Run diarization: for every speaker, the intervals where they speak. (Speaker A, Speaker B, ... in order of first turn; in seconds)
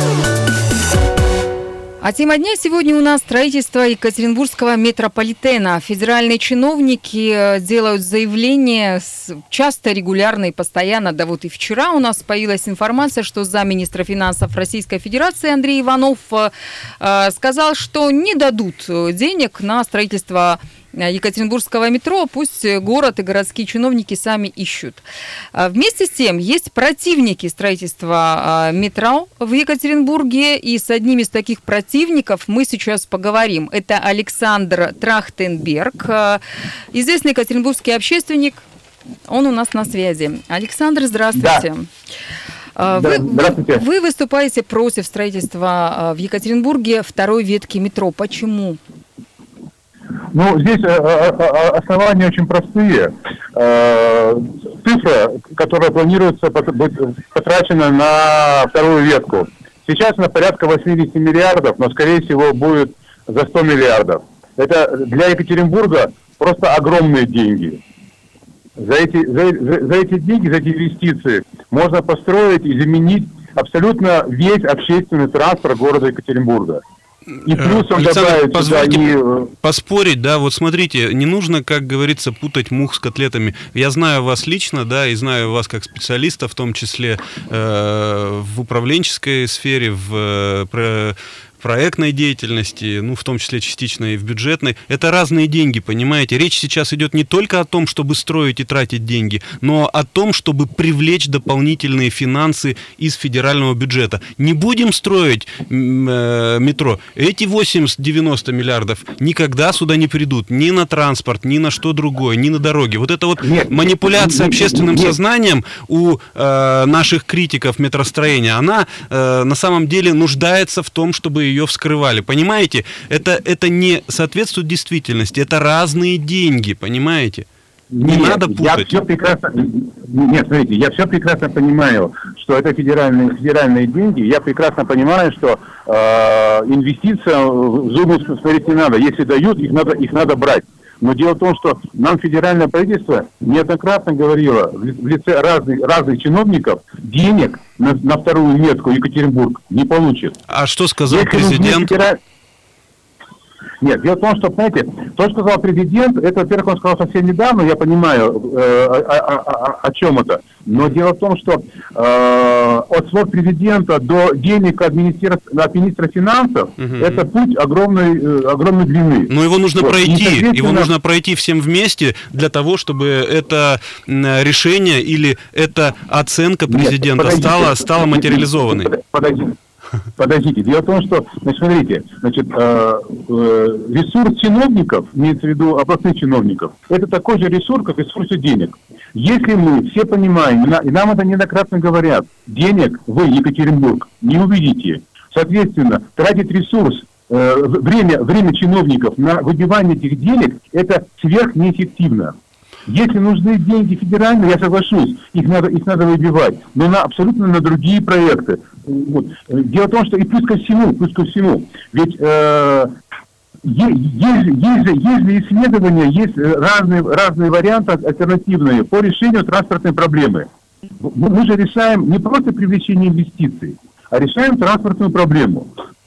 Speaker A: 2.0-36.4, 36.9-38.6, 39.3-41.9, 42.8-48.8
Speaker B: 41.4-41.6, 42.9-43.8, 50.3-67.8, 68.8-76.8, 77.4-79.5, 113.4-115.2, 127.9-150.3, 151.1-152.2, 153.8-170.9, 176.7-179.5, 180.2-202.3, 202.9-212.9, 213.6-220.5, 221.0-225.7
Speaker C: 77.5-127.5, 128.0-129.0, 150.5-152.0, 166.8-167.3, 169.3-178.9